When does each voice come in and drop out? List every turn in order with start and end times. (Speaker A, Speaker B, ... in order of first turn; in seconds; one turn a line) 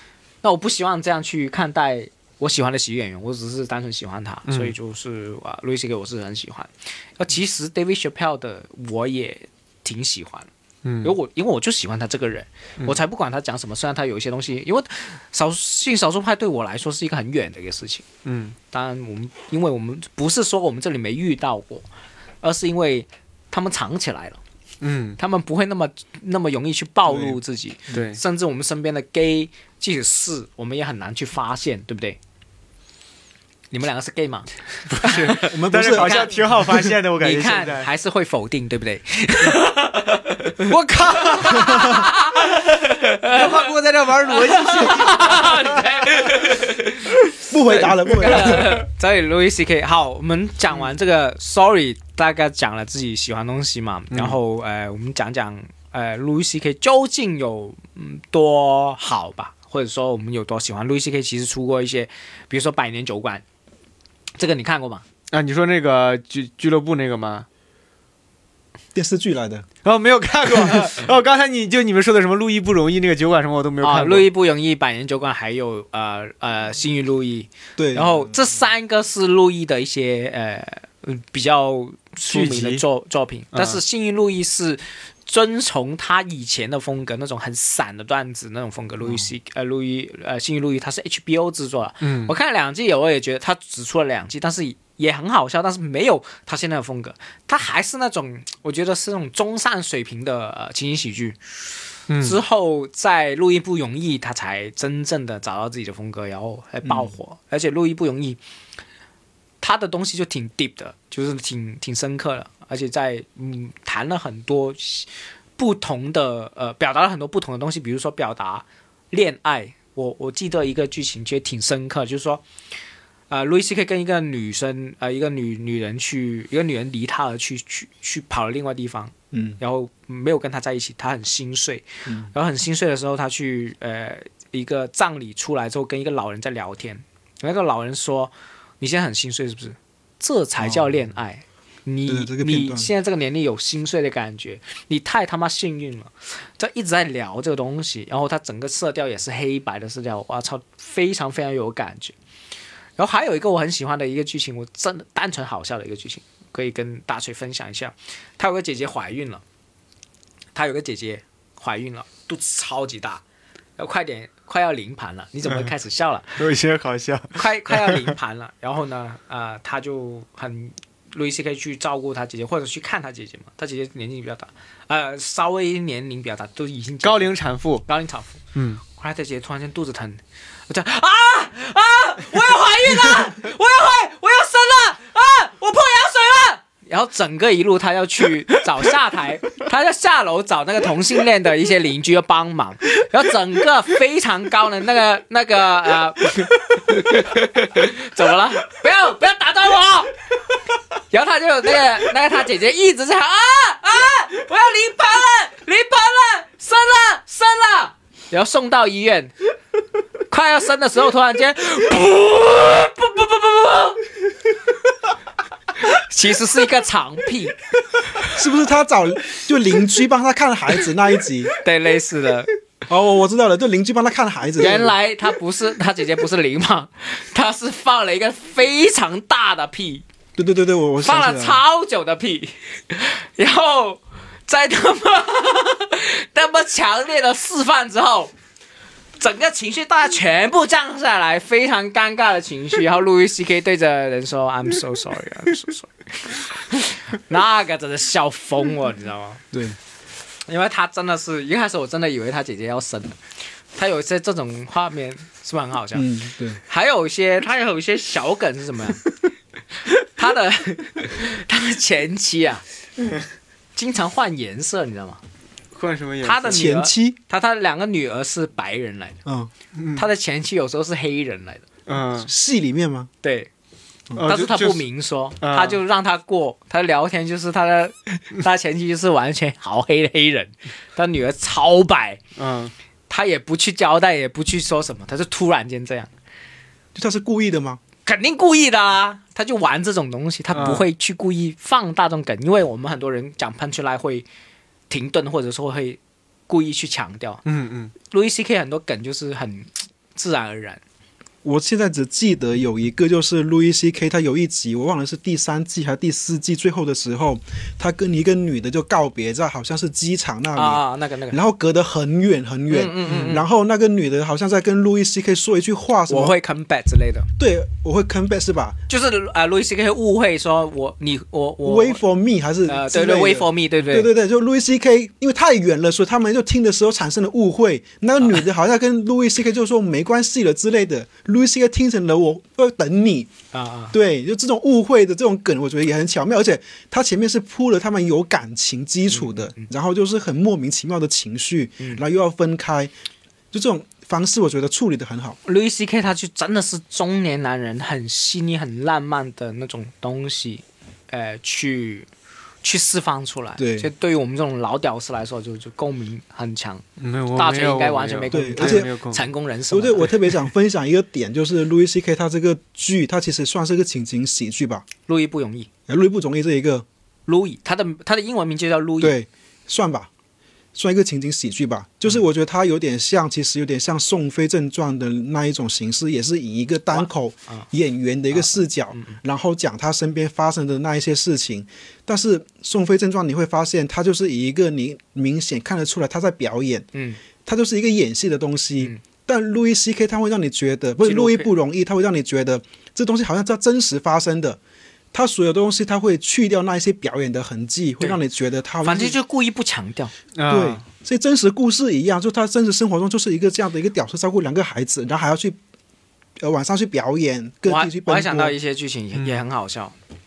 Speaker A: 0.4-10.5
Speaker B: 4.5-4.7
Speaker B: 10.8-11.1
Speaker A: 11.0-18.0
Speaker B: 18.2-18.6
Speaker A: 18.7-21.8
Speaker A: 22.4-24.4
Speaker B: 24.8-25.2
Speaker A: 25.2-32.2
Speaker C: 27.1-27.4
Speaker B: 27.9-28.2
Speaker A: 33.7-36.5
Speaker B: 34.9-37.9
Speaker C: 35.4-36.9
Speaker A: 37.2-43.7
Speaker B: 40.6-46.6
Speaker A: 44.3-47.1
Speaker C: 47.4-48.8
Speaker A: 47.7-63.4
Speaker B: 48.4-48.7
Speaker A: 64.4-65.0
Speaker B: 65.3-67.5
Speaker C: 68.9-69.7
Speaker B: 69.8-74.3
Speaker A: 70.6-70.9
Speaker A: 73.8-101.6
Speaker C: 77.8-78.3
Speaker B: 82.3-82.8
Speaker B: 83.5-83.8
Speaker B: 92.0-92.3
Speaker B: 102.1-102.4
Speaker A: 102.2-108.4
Speaker C: 106.8-107.1
Speaker A: 109.6-122.4
Speaker A: 123.3-152.1
Speaker C: 129.3-129.6
Speaker C: 140.6-140.9
Speaker C: 142.1-142.9
Speaker A: 153.0-159.4
Speaker A: 160.5-163.2
Speaker A: 163.8-166.4
Speaker B: 166.4-168.1
Speaker A: 167.3-177.3
Speaker B: 177.0-177.8
Speaker A: 177.8-178.4
Speaker B: 178.5-178.8
Speaker A: 178.9-200.1
Speaker A: 201.1-209.3
Speaker A: 210.3-214.0
Speaker A: 215.8-217.6
Speaker C: 218.3-221.5
Speaker A: 221.6-222.5
Speaker C: 222.9-224.9
Speaker A: 224.6-230.0
Speaker C: 230.3-231.6
Speaker A: 231.0-238.3
Speaker A: 239.2-249.4
Speaker C: 249.5-249.8
Speaker A: 250.5-253.2
Speaker A: 253.7-256.1
Speaker C: 255.9-256.6
Speaker A: 256.6-259.1
Speaker A: 259.9-262.6
Speaker A: 263.7-265.2
Speaker B: 265.7-266.7
Speaker A: 266.2-269.2
Speaker C: 266.5-267.2
Speaker C: 269.2-269.5
Speaker B: 269.8-270.0
Speaker A: 269.9-271.6
Speaker B: 271.9-272.3
Speaker C: 272.2-273.1
Speaker A: 273.2-273.5
Speaker B: 274.1-274.8
Speaker A: 274.2-282.2
Speaker B: 275.4-275.8
Speaker B: 282.4-282.7
Speaker A: 283.1-286.1
Speaker C: 286.9-287.8
Speaker A: 288.0-294.2
Speaker B: 290.5-290.9
Speaker A: 294.9-297.4
Speaker B: 297.4-297.9
Speaker A: 298.0-300.8
Speaker C: 301.4-316.4
Speaker A: 310.5-311.4
Speaker A: 312.7-313.4
Speaker B: 313.1-313.4
Speaker A: 316.1-317.3
Speaker C: 317.4-318.8
Speaker A: 318.9-322.0
Speaker C: 321.6-333.3
Speaker A: 322.7-324.1
Speaker A: 333.5-333.9
Speaker C: 333.9-342.9
Speaker A: 339.1-339.7
Speaker C: 343.5-345.4
Speaker A: 345.4-352.1
Speaker A: 352.6-360.1
Speaker C: 353.6-353.9
Speaker B: 357.0-359.2
Speaker C: 358.3-358.9
Speaker C: 359.7-364.9
Speaker A: 365.1-365.7
Speaker C: 365.9-366.9
Speaker A: 367.3-369.1
Speaker C: 369.0-370.1
Speaker C: 370.7-386.9
Speaker A: 376.9-377.6
Speaker A: 378.3-379.2
Speaker A: 386.9-387.2
Speaker C: 387.4-394.6
Speaker A: 391.0-391.5
Speaker C: 395.1-399.2
Speaker A: 398.8-400.1
Speaker B: 400.3-400.8
Speaker C: 400.5-405.6
Speaker C: 406.4-408.5
Speaker A: 407.6-409.9